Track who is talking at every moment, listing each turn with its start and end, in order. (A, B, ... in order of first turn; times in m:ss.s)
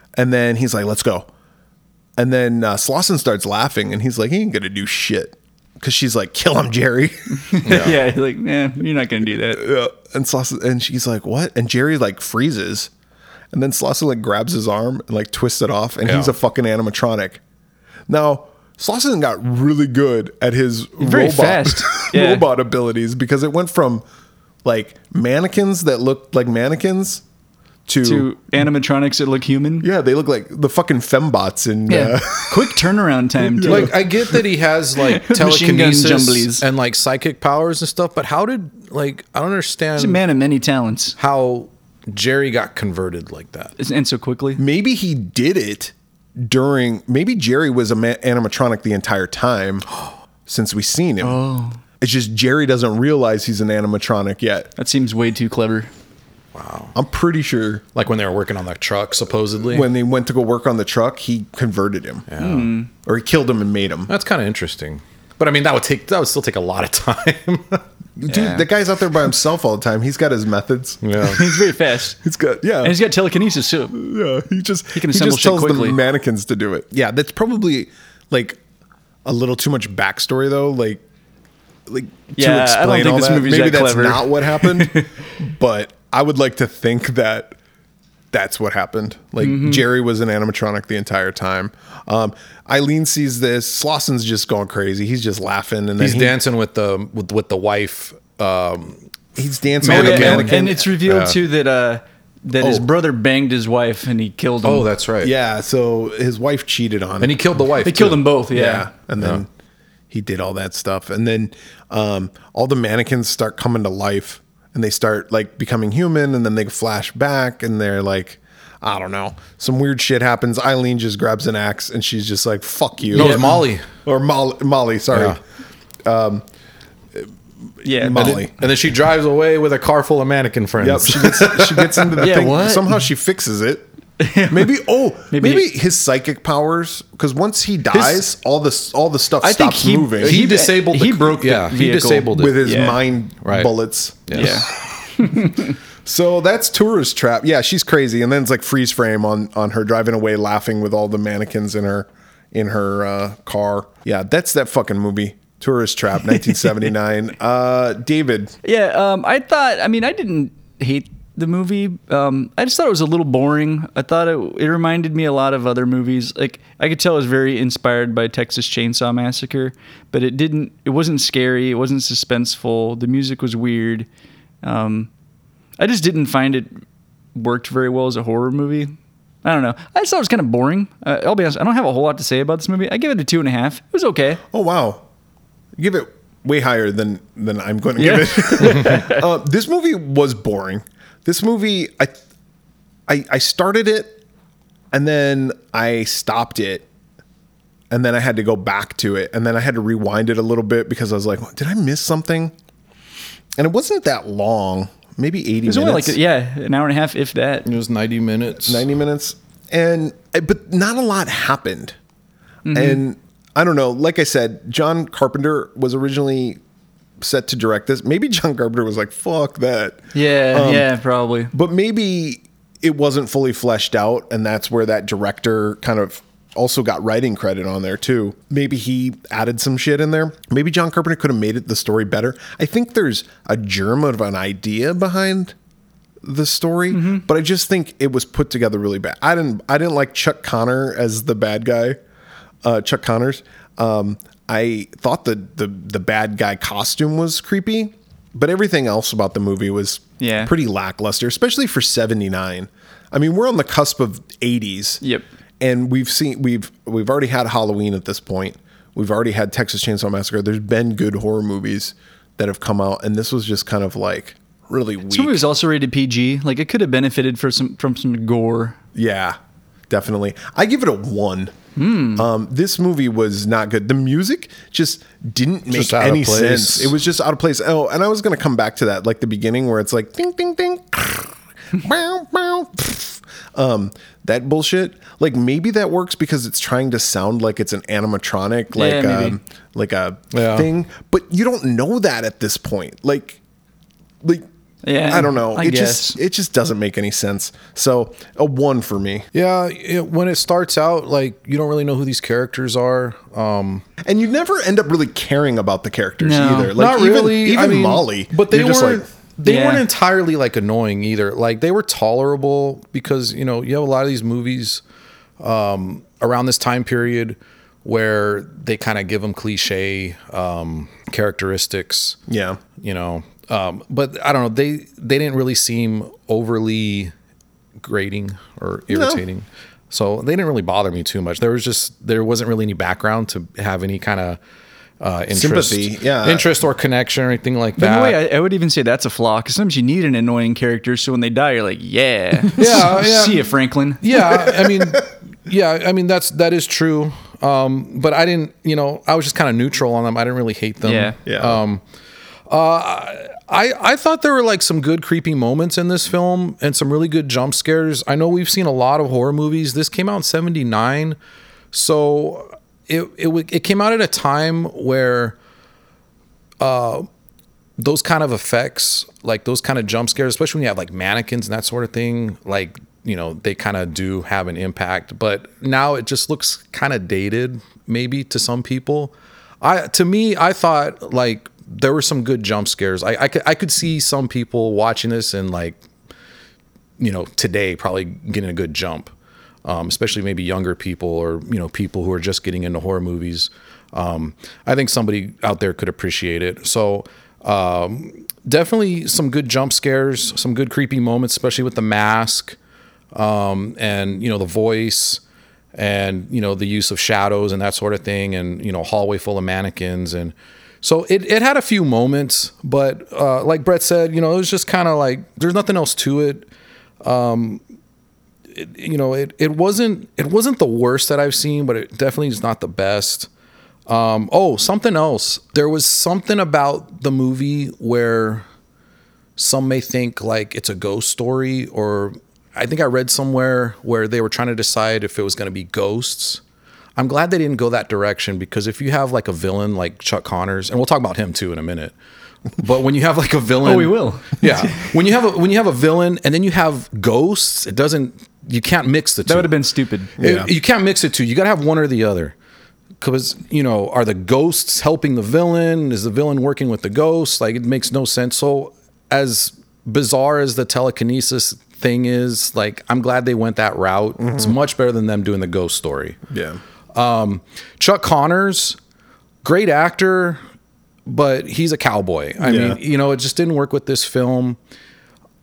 0:00.2-0:01.3 A
0:02.2-0:07.9 A
0:07.4-0:09.6 B
0:07.6-0:08.0 C
0:09.5-0:12.9 A
0:13.5-0:17.4 A
0:16.0-0:16.3 C
0:18.1-0:24.0 A
0:21.0-0:22.4 B
0:24.6-0:27.2 A
0:27.9-0:28.3 A
0:28.0-0:29.9 B
0:29.8-0:32.8 A
0:31.9-0:34.0 B
0:33.4-0:34.3 A
0:33.6-0:40.2 C
0:35.0-0:36.6 B
0:40.0-0:41.2 B
0:41.2-0:43.7 C
0:43.8-0:44.6 B
0:44.6-0:49.9 A
0:50.4-0:51.4 A
0:51.2-0:51.8 B
0:52.0-0:54.7 A
0:54.8-0:55.9 B
0:56.5-0:56.9 C
0:56.9-0:57.8 A
0:57.9-0:59.9 C
0:59.7-1:02.3 A
1:02.3-1:02.7 C
1:02.4-1:02.9 B
1:03.0-1:04.1 A
1:04.1-1:07.8 C
1:08.2-1:11.0 A
1:08.3-1:08.7 B
1:11.0-1:11.4 C
1:11.2-1:12.2 B
1:12.2-1:13.0 A
1:12.8-1:14.0 B
1:13.9-1:18.6 A
1:14.9-1:16.0 B
1:19.2-1:21.0 A
1:21.9-1:27.6 A
1:22.4-1:25.1 B
1:28.3-1:36.3 A
1:29.4-1:29.8 B
1:36.0-1:39.0 C
1:39.4-1:40.8 A
1:39.8-1:41.4 C
1:39.8-1:44.9 B
1:42.6-1:42.8 A
1:44.6-1:45.3 C
1:45.2-1:47.4 A
1:47.2-1:48.2 C
1:47.8-1:48.9 B
1:48.5-1:49.5 A
1:50.1-2:05.4 A
2:03.1-2:03.8 C
2:03.1-2:03.6 B
2:05.1-2:05.4 C
2:06.0-2:06.4 A
2:07.8-2:08.4 B
2:07.8-2:08.5 A
2:08.1-2:12.3 C
2:10.8-2:13.9 A
2:12.2-2:13.0 B
2:14.2-2:14.8 B
2:14.5-2:20.4 A
2:15.3-2:15.7 B
2:19.4-2:23.0 B
2:20.2-2:22.7 C
2:22.3-2:38.6 A
2:23.4-2:23.7 C
2:24.3-2:24.6 C
2:24.3-2:25.8 B
2:38.6-2:54.1 B
2:54.6-2:55.1 B
2:55.8-2:56.8 B
2:57.3-3:04.4 B
3:04.5-3:05.0 A
3:05.8-3:12.2 A
3:08.0-3:09.2 B
3:13.1-3:14.2 A
3:14.9-3:16.8 A
3:17.9-3:22.5 A
3:23.6-3:26.2 A
3:25.6-3:27.6 B
3:27.6-3:28.8 C
3:28.6-3:32.0 A
3:32.6-3:33.0 B
3:32.7-3:36.6 A
3:37.2-3:40.9 A
3:40.1-3:41.5 B
3:41.5-3:55.5 A
3:56.2-4:02.0 A
3:56.9-3:57.2 B
4:02.6-4:15.0 A
4:10.2-4:10.5 B
4:15.6-4:25.4 A
4:25.1-4:28.8 B
4:28.9-4:29.4 A
4:29.9-4:31.5 A
4:31.8-4:32.2 B
4:32.1-4:53.4 A
4:35.7-4:36.9 C
4:48.7-4:49.4 B
4:50.3-4:50.7 C
4:54.8-4:56.2 B
4:55.1-4:59.3 A
4:59.3-5:03.8 C
5:04.0-5:09.0 A
5:06.2-5:06.7 B
5:06.7-5:14.8 C
5:09.4-5:09.8 B
5:15.4-5:22.2 C
5:22.3-5:22.6 A
5:22.8-5:27.1 C
5:27.8-5:34.4 C
5:28.9-5:29.2 A
5:35.0-5:38.2 C
5:35.3-5:36.5 A
5:37.8-5:44.1 B
5:42.6-5:51.8 C
5:44.5-5:45.0 A
5:50.8-5:51.2 B
5:51.2-5:51.6 A
5:52.5-6:01.2 C
6:01.7-6:05.3 C
6:06.6-6:07.1 C
6:07.8-6:25.8 C
6:27.0-6:29.1 C
6:29.6-6:42.6 C
6:43.1-6:45.2 C
6:45.7-6:56.5 C
6:57.0-6:57.6 C
6:58.5-7:03.3 C
7:03.9-7:08.4 C
7:09.4-7:16.4 C
7:17.0-7:21.9 C
7:22.6-7:29.5 C
7:23.6-7:24.9 B
7:29.3-7:30.1 B
7:30.2-7:30.5 A
7:30.2-7:32.3 C
7:33.0-7:46.2 C
7:44.2-7:44.6 A
7:46.3-7:46.6 A
7:46.9-7:48.8 C
7:49.4-7:50.4 C
7:51.0-7:54.6 C
7:52.4-7:52.8 A